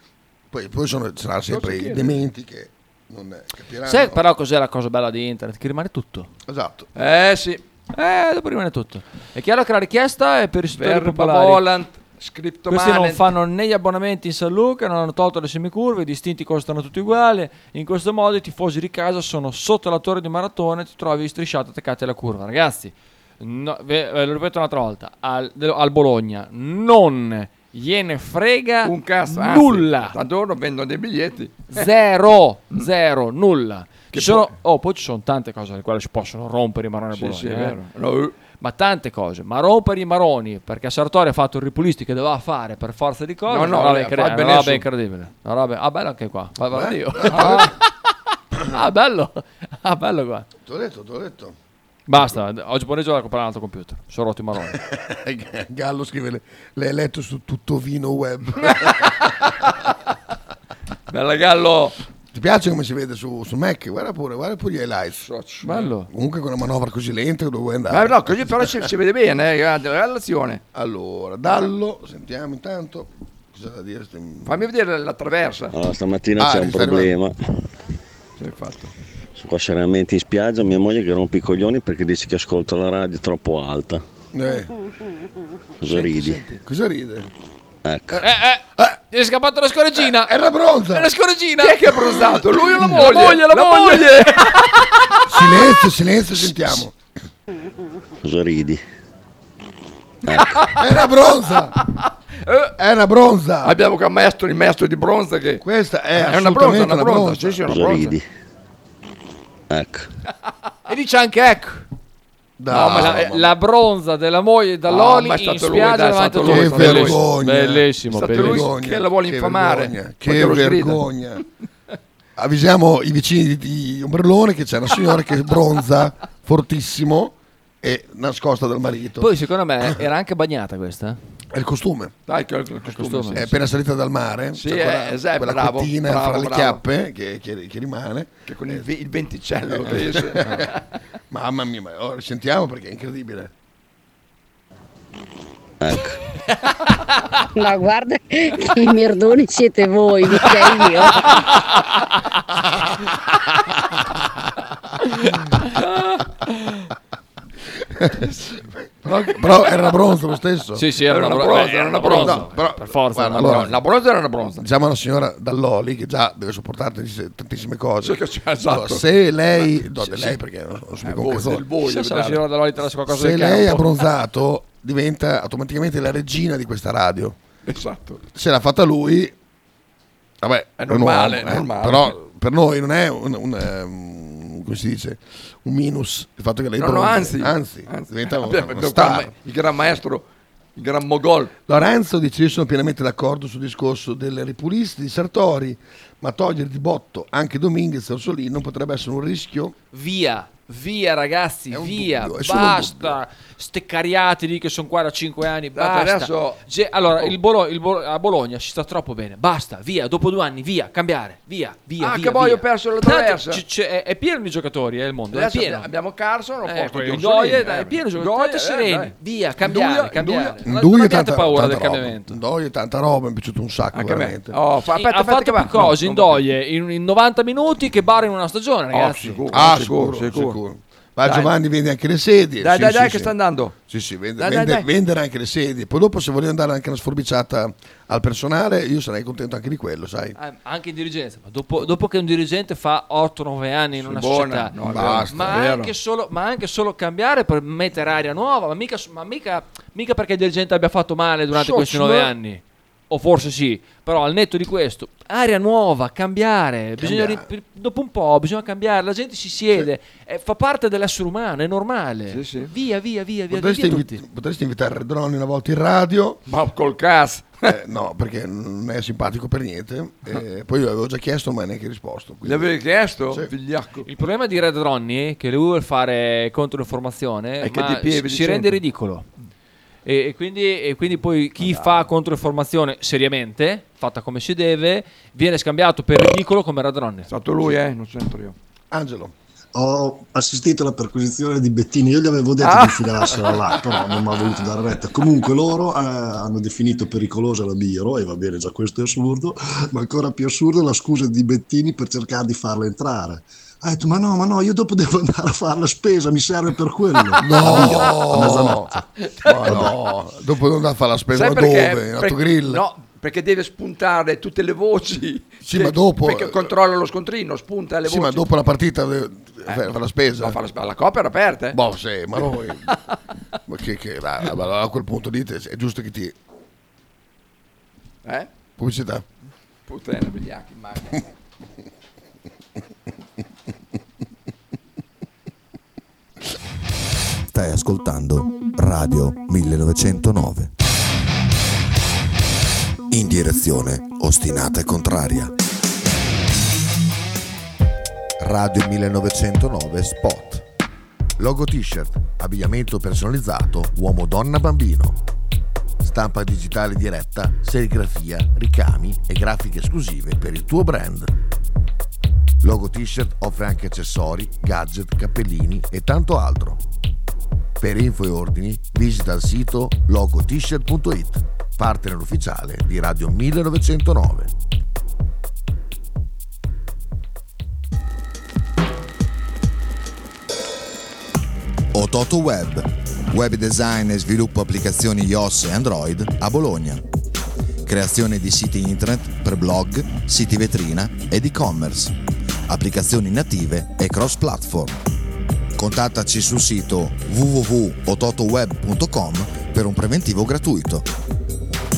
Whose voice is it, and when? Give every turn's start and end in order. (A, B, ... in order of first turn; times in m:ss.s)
0:00.5-0:04.2 A
0:01.5-0:02.2 B
0:03.8-0:06.3 C
0:06.5-0:06.9 A
0:07.0-0:07.6 B
0:07.9-0:11.6 C
0:10.7-0:13.3 B
0:12.7-0:30.1 C
0:28.8-0:31.9 B
0:31.7-0:37.8 C
0:34.1-0:34.5 B
0:37.1-0:38.3 B
0:38.6-0:47.9 C
0:43.5-0:44.8 B
0:46.7-0:47.7 A
0:47.3-0:47.6 B
0:48.6-0:50.4 C
0:50.6-0:51.5 A
0:52.1-0:54.8 C
0:54.7-0:59.3 A
0:58.7-0:59.1 B
1:01.1-1:02.0 B
1:02.3-1:05.3 A
1:05.2-1:05.9 B
1:05.6-1:06.1 C
1:06.1-1:08.8 A
1:07.9-1:10.6 B
1:10.7-1:14.6 A
1:14.4-1:15.8 B
1:15.7-1:17.3 D
1:16.4-1:17.2 A
1:18.4-1:18.9 B
1:19.4-1:24.0 D
1:24.3-1:24.7 A
1:25.8-1:26.4 D
1:25.9-1:26.6 B
1:26.0-1:27.3 A
1:27.8-1:28.2 D
1:28.2-1:30.3 C
1:30.1-1:31.1 A
1:30.9-1:31.8 C
1:31.6-1:34.8 B
1:32.1-1:32.9 A
1:32.8-1:34.7 C
1:35.3-1:36.9 A
1:38.2-1:38.8 D
1:40.2-1:40.7 D
1:40.8-1:41.8 A
1:42.8-1:43.8 A
1:43.6-1:45.6 B
1:45.6-1:47.7 A
1:46.2-1:48.1 B
1:47.7-1:48.2 D
1:49.7-1:50.1 D
1:50.9-1:51.8 C
1:52.6-1:53.5 A
1:52.7-1:53.3 B
1:52.9-1:58.6 C
1:54.9-1:57.2 B
1:56.4-2:01.4 A
1:58.1-2:01.0 B
2:02.4-2:09.3 A
2:09.2-2:11.2 C
2:11.5-2:12.1 A
2:12.3-2:13.5 B
2:12.9-2:13.6 C
2:13.3-2:18.8 A
2:14.5-2:16.8 B
2:18.5-2:20.8 B
2:19.7-2:20.7 A
2:21.3-2:23.5 A
2:25.8-2:26.2 D
2:27.5-2:31.4 E
2:31.3-2:31.8 C
2:35.1-2:35.8 C
2:36.5-2:36.8 C
2:37.9-2:38.3 A
2:39.0-2:40.8 A
2:40.7-2:43.7 C
2:41.0-2:42.5 B
2:42.1-2:43.8 A
2:43.4-2:44.6 B
2:44.6-2:51.6 A
2:48.0-2:49.0 B
2:50.0-2:50.3 B
2:51.0-2:52.4 B
2:51.8-2:54.0 C
2:53.1-2:57.4 A
2:57.6-2:58.2 B
2:58.3-2:59.3 A
3:00.4-3:09.3 A
3:00.8-3:02.2 B
3:06.8-3:11.5 B
3:11.7-3:19.7 A
3:19.9-3:35.9 C
3:21.7-3:23.2 A
3:25.7-3:26.6 B
3:32.0-3:33.6 B
3:35.3-3:40.6 B
3:36.6-3:42.4 C
3:40.6-3:44.6 A
3:43.9-3:46.4 B
3:44.9-3:49.4 C
3:48.9-3:50.6 B
3:49.5-3:53.3 A
3:51.2-3:51.5 B
3:52.6-3:53.8 B
3:53.9-4:00.4 A
3:54.4-3:54.9 B
4:00.4-4:04.7 C
4:04.0-4:05.9 B
4:04.8-4:05.6 A
4:05.3-4:24.2 C
4:11.6-4:12.3 B
4:17.0-4:17.5 A
4:22.3-4:22.7 B
4:23.5-4:26.4 A
4:26.5-4:27.7 B
4:27.6-4:32.7 A
4:32.4-4:34.1 B
4:34.0-4:39.2 C
4:37.6-4:38.8 B
4:40.0-4:47.3 C
4:41.7-4:42.0 B
4:47.3-4:48.6 B
4:48.9-4:49.3 A
4:49.7-5:09.0 F
4:52.6-4:53.3 B
5:07.4-5:08.9 A
5:07.7-5:08.1 B
5:09.4-5:09.9 B
5:09.4-5:12.8 A
5:11.3-5:18.5 B
5:15.6-5:16.7 A
5:18.0-5:20.6 A
5:19.7-5:21.8 B
5:21.7-5:22.9 A
5:23.7-5:26.4 A
5:28.2-5:28.5 B
5:28.8-5:29.2 A
5:29.9-5:31.2 B
5:37.5-5:40.7 G
5:43.1-5:45.3 H
5:43.3-5:45.5 G
5:48.4-5:50.6 H
5:51.4-5:55.2 H
5:56.0-6:01.3 H
6:02.6-6:06.8 H
6:07.8-6:14.5 H
6:21.9-6:27.0 G
6:27.8-6:32.1 G
6:32.7-6:35.0 G
6:35.8-6:41.0 G